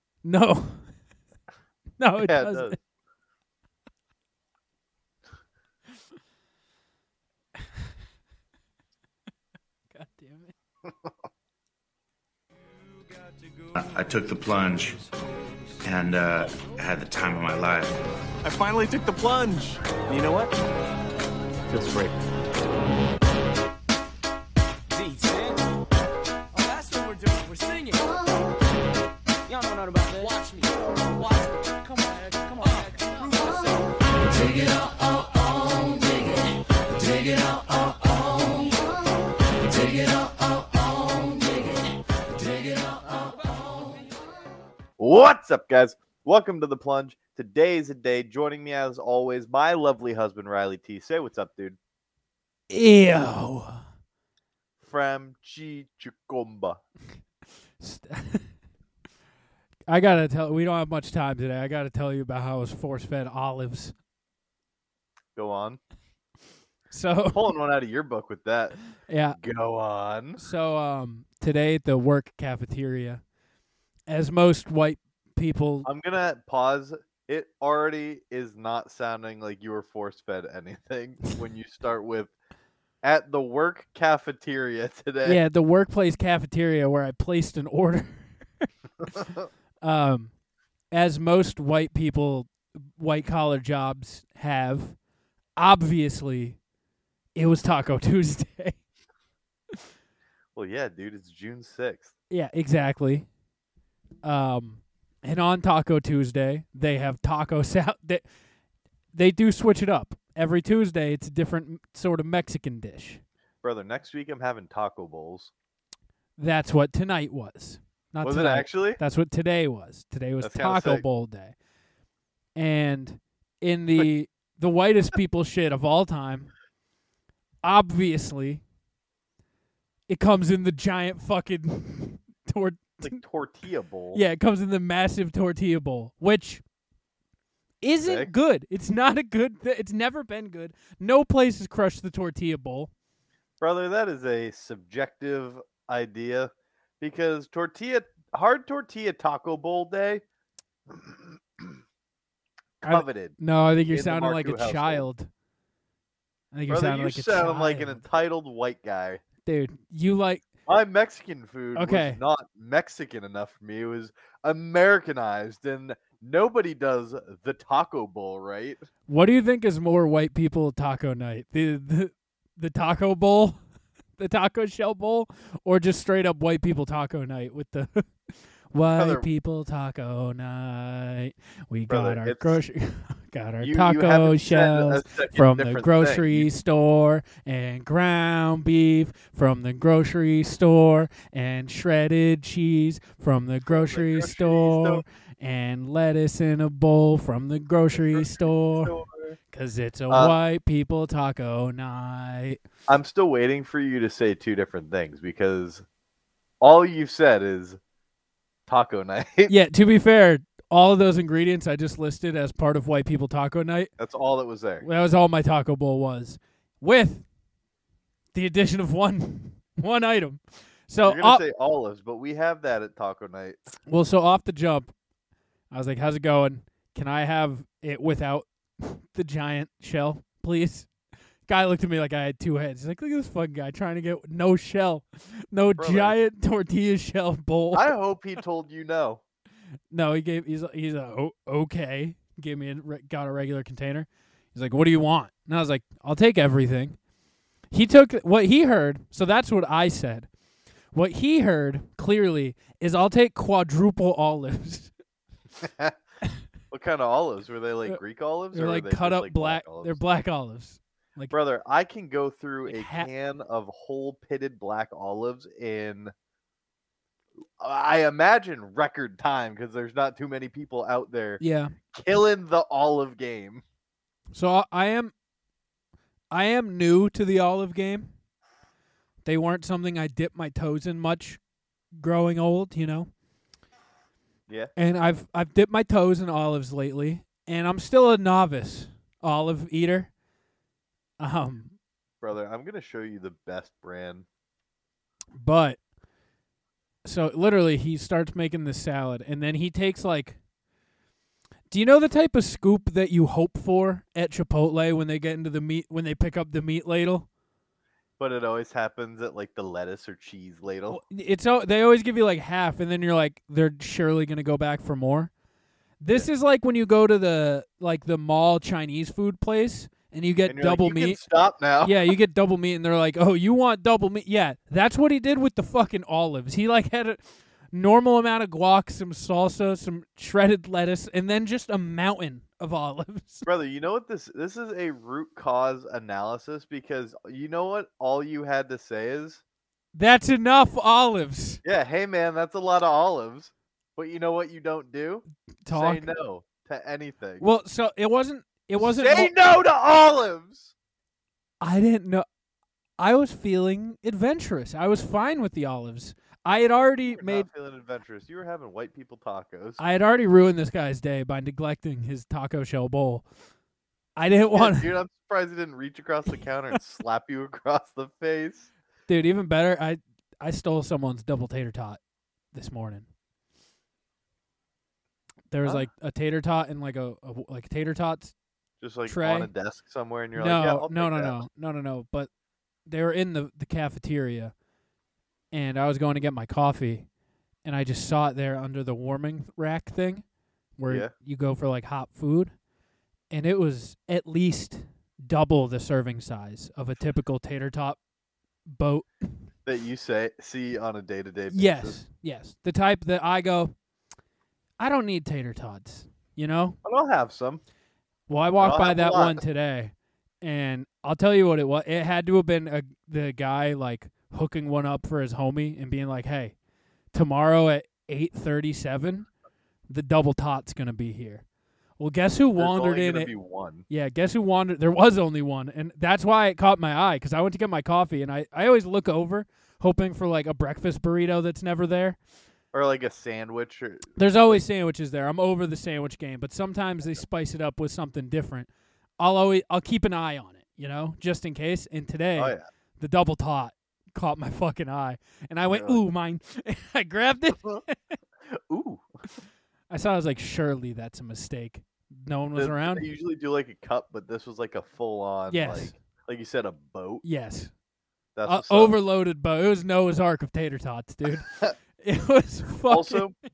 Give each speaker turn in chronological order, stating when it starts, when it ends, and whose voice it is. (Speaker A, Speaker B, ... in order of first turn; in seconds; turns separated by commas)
Speaker A: 0.2-0.9, Speaker A: 2.0-2.8, Speaker B: 2.2-2.8, Speaker A: 9.9-10.5, Speaker B: 10.8-11.1, Speaker C: 13.7-15.0, Speaker C: 15.8-18.0, Speaker D: 18.4-20.5, Speaker D: 21.7-22.2, Speaker E: 24.9-25.6, Speaker E: 26.5-28.1, Speaker E: 29.5-34.8, Speaker E: 35.6-36.4, Speaker E: 37.0-37.8, Speaker E: 38.3-38.6, Speaker E: 41.1-41.7, Speaker E: 43.2-44.0, Speaker B: 45.0-51.8, Speaker A: 52.7-53.8, Speaker B: 54.8-56.8, Speaker A: 57.8-58.5, Speaker A: 59.9-63.9, Speaker B: 65.3-65.8, Speaker A: 66.9-67.5, Speaker B: 67.3-68.8, Speaker A: 69.1-69.4, Speaker B: 69.3-70.4, Speaker A: 70.4-73.2, Speaker A: 74.1-75.9, Speaker B: 75.8-82.3, Speaker B: 83.0-85.4, Speaker A: 85.2-88.7, Speaker A: 89.8-90.3, Speaker A: 90.9-95.0, Speaker A: 95.6-96.6, Speaker A: 97.3-98.8, Speaker B: 100.5-102.1, Speaker A: 102.3-103.3, Speaker A: 104.2-108.2, Speaker A: 109.1-113.2, Speaker B: 113.6-115.5, Speaker A: 116.4-121.5, Speaker B: 118.2-119.0, Speaker B: 120.4-121.0, Speaker A: 122.5-126.5, Speaker A: 127.6-128.6, Speaker A: 130.1-133.2, Speaker B: 133.0-134.2, Speaker A: 134.1-136.6, Speaker A: 137.8-142.9, Speaker B: 138.0-138.3, Speaker B: 143.6-150.2, Speaker B: 150.9-151.8, Speaker B: 152.8-155.1, Speaker A: 152.8-155.3, Speaker A: 156.5-158.0, Speaker B: 156.7-159.2, Speaker A: 159.4-160.4, Speaker B: 160.7-168.8, Speaker A: 161.7-162.2, Speaker A: 169.1-173.6, Speaker A: 174.2-178.1, Speaker A: 178.7-198.9, Speaker B: 178.8-179.3, Speaker B: 181.9-182.6, Speaker B: 183.6-186.5, Speaker B: 193.7-195.0, Speaker B: 197.9-199.4, Speaker A: 199.5-202.6, Speaker B: 200.1-200.3, Speaker B: 202.9-205.8, Speaker B: 206.6-207.8, Speaker B: 208.7-209.5, Speaker A: 209.5-213.9, Speaker B: 214.0-214.9, Speaker A: 214.8-217.2, Speaker A: 218.3-221.4, Speaker B: 221.0-223.6, Speaker A: 223.9-224.9, Speaker A: 225.7-230.9, Speaker A: 231.5-237.9, Speaker B: 235.8-236.2, Speaker B: 237.7-239.2, Speaker A: 239.9-246.9, Speaker A: 247.7-250.3, Speaker A: 250.9-254.9, Speaker B: 255.6-256.0, Speaker B: 256.7-260.0, Speaker A: 258.5-261.4, Speaker B: 261.3-266.1, Speaker A: 262.7-263.1, Speaker B: 267.6-271.4, Speaker A: 271.4-271.8, Speaker B: 271.9-273.6, Speaker A: 274.3-275.1, Speaker A: 276.3-278.1, Speaker A: 279.2-281.4, Speaker A: 282.0-283.1, Speaker A: 284.8-290.1, Speaker A: 291.2-291.7, Speaker B: 292.2-294.2, Speaker A: 295.3-295.8, Speaker A: 297.0-300.4, Speaker A: 301.7-307.3, Speaker B: 308.2-311.0, Speaker A: 310.9-315.3, Speaker A: 316.0-321.2, Speaker B: 320.5-322.1, Speaker A: 321.8-333.5, Speaker B: 333.4-339.4, Speaker A: 339.9-341.6, Speaker B: 341.6-347.4, Speaker A: 345.6-346.1, Speaker A: 347.4-349.3, Speaker B: 348.8-350.7, Speaker A: 351.6-352.2, Speaker A: 353.0-357.5, Speaker B: 357.1-359.8, Speaker A: 359.8-363.2, Speaker A: 364.2-364.9, Speaker B: 364.5-368.7, Speaker A: 369.1-372.0, Speaker A: 372.5-373.1, Speaker A: 375.5-378.3, Speaker B: 378.8-381.4, Speaker A: 379.1-379.5, Speaker A: 380.4-382.3, Speaker A: 382.9-384.5, Speaker A: 385.5-387.1, Speaker A: 387.6-390.2, Speaker A: 390.8-392.5, Speaker A: 393.3-398.0, Speaker A: 398.7-399.1, Speaker B: 399.6-402.0, Speaker A: 401.5-403.7, Speaker A: 404.8-406.8, Speaker B: 406.8-407.6, Speaker A: 408.3-416.5, Speaker B: 408.6-409.4, Speaker A: 417.1-419.3, Speaker A: 419.9-421.4, Speaker A: 422.0-423.3, Speaker B: 422.6-423.8, Speaker A: 423.9-432.2, Speaker B: 432.7-434.6, Speaker A: 434.1-448.2, Speaker B: 442.4-442.6, Speaker B: 445.7-446.0, Speaker B: 448.5-449.1, Speaker A: 449.9-453.1, Speaker B: 452.6-457.2, Speaker A: 455.5-455.9, Speaker A: 457.2-457.7, Speaker B: 458.4-459.0, Speaker A: 458.4-463.3, Speaker B: 461.4-461.7, Speaker B: 462.9-463.3